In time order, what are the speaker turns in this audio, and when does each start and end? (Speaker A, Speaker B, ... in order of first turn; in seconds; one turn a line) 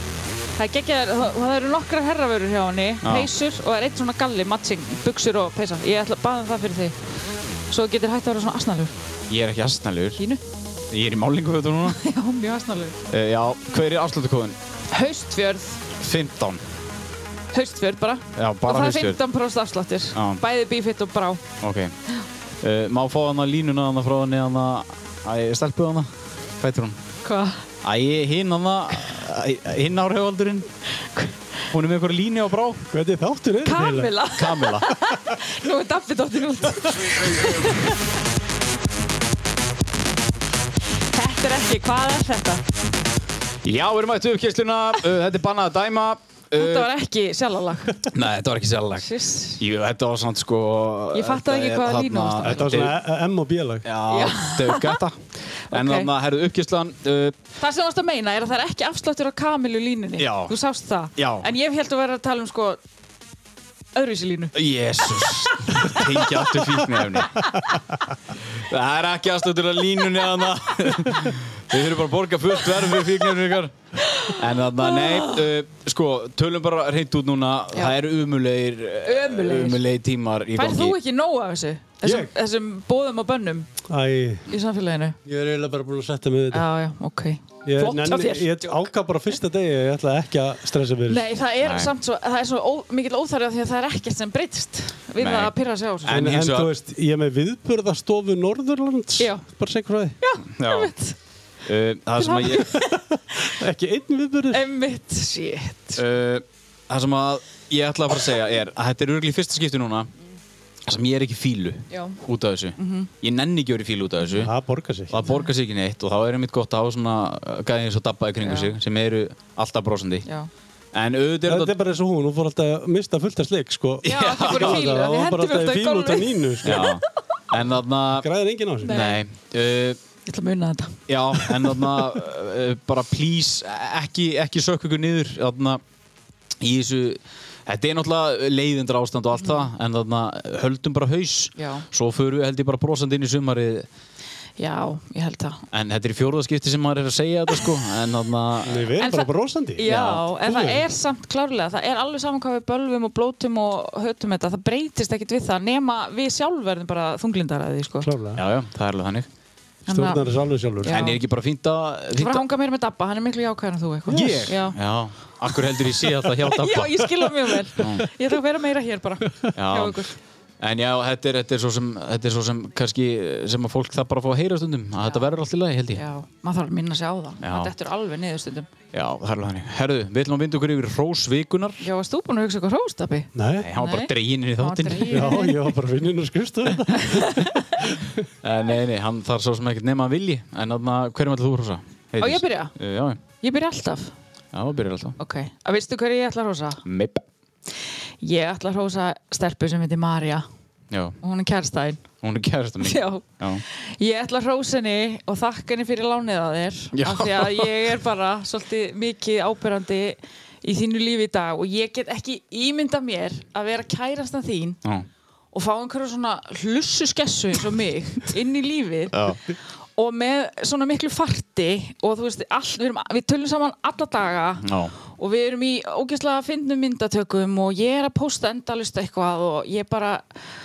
Speaker A: 0.6-7.0
Speaker B: 3.0-3.3
Speaker A: 7.7-8.9
Speaker B: 9.3-10.2
Speaker A: 10.2-10.4
Speaker B: 10.9-12.0
Speaker A: 11.8-13.0
Speaker B: 13.1-14.6
Speaker A: 14.9-15.8
Speaker B: 16.0-16.6
Speaker A: 17.5-21.4
Speaker B: 18.3-19.2
Speaker B: 20.1-20.4
Speaker B: 21.6-21.9
Speaker B: 22.6-27.0
Speaker A: 27.2-27.7
Speaker B: 27.8-30.7
Speaker A: 31.0-31.4
Speaker B: 31.7-32.9
Speaker C: 32.9-34.1
Speaker A: 33.6-38.0
Speaker B: 34.3-34.9
Speaker A: 41.1-42.6
Speaker B: 43.6-46.9
Speaker A: 46.5-48.1
Speaker B: 48.1-53.0
Speaker A: 49.0-49.6
Speaker A: 51.1-52.9
Speaker C: 52.4-53.9
Speaker B: 53.8-57.4
Speaker A: 54.1-55.0
Speaker A: 55.7-56.1
Speaker A: 57.6-62.8
Speaker B: 60.2-60.5
Speaker B: 61.1-61.5
Speaker A: 63.9-64.5
Speaker B: 64.5-67.4
Speaker A: 65.2-66.0
Speaker B: 68.3-81.0
Speaker A: 74.0-75.5
Speaker A: 79.0-79.8
Speaker A: 80.5-83.7
Speaker C: 82.0-82.3
Speaker C: 83.9-84.5
Speaker A: 84.5-85.2
Speaker C: 85.2-86.7
Speaker A: 86.5-88.9
Speaker C: 87.6-91.3
Speaker A: 91.1-96.2
Speaker B: 91.6-91.9
Speaker B: 95.2-96.7
Speaker C: 96.1-100.2
Speaker A: 100.2-101.2
Speaker B: 100.4-100.9
Speaker B: 101.6-102.8
Speaker A: 102.2-103.5
Speaker C: 102.9-104.7
Speaker A: 104.5-106.0
Speaker B: 106.0-110.1
Speaker B: 110.8-114.5
Speaker A: 111.9-112.2
Speaker A: 112.8-113.1
Speaker C: 114.4-115.2
Speaker B: 115.1-120.2
Speaker A: 115.2-115.5
Speaker A: 118.4-118.7
Speaker A: 120.2-120.5
Speaker B: 120.9-121.7
Speaker C: 121.5-126.9
Speaker B: 124.0-124.8
Speaker A: 124.0-127.0
Speaker B: 126.6-128.3
Speaker C: 128.1-129.0
Speaker A: 128.8-129.2
Speaker B: 128.8-130.0
Speaker A: 130.2-131.9
Speaker B: 131.1-135.8
Speaker B: 136.6-143.9
Speaker A: 141.6-141.8
Speaker A: 144.6-145.6
Speaker B: 145.7-148.9
Speaker C: 148.6-149.9
Speaker A: 149.0-158.1
Speaker B: 149.8-150.2
Speaker C: 150.4-150.8
Speaker C: 158.0-158.4
Speaker B: 158.3-159.3
Speaker A: 159.9-161.2
Speaker C: 159.9-161.1
Speaker B: 160.9-162.4
Speaker A: 162.1-164.8
Speaker B: 164.1-167.1
Speaker C: 164.1-164.5
Speaker A: 166.4-170.2
Speaker B: 167.8-168.1
Speaker B: 169.5-170.0
Speaker B: 170.6-176.0
Speaker A: 175.9-178.7
Speaker B: 177.4-177.7
Speaker B: 178.9-181.8
Speaker A: 181.8-185.7
Speaker C: 183.3-183.7
Speaker B: 183.6-185.4
Speaker C: 185.1-188.2
Speaker A: 186.9-187.8
Speaker B: 188.4-193.2
Speaker A: 192.2-192.7
Speaker A: 193.4-194.1
Speaker B: 194.5-195.2
Speaker A: 195.2-196.8
Speaker B: 196.8-197.2
Speaker A: 197.7-200.4
Speaker B: 200.9-201.2
Speaker A: 201.2-202.1
Speaker B: 202.2-203.6
Speaker A: 202.8-214.8
Speaker B: 206.9-207.9
Speaker A: 215.5-230.4
Speaker B: 219.1-219.4
Speaker B: 224.6-224.9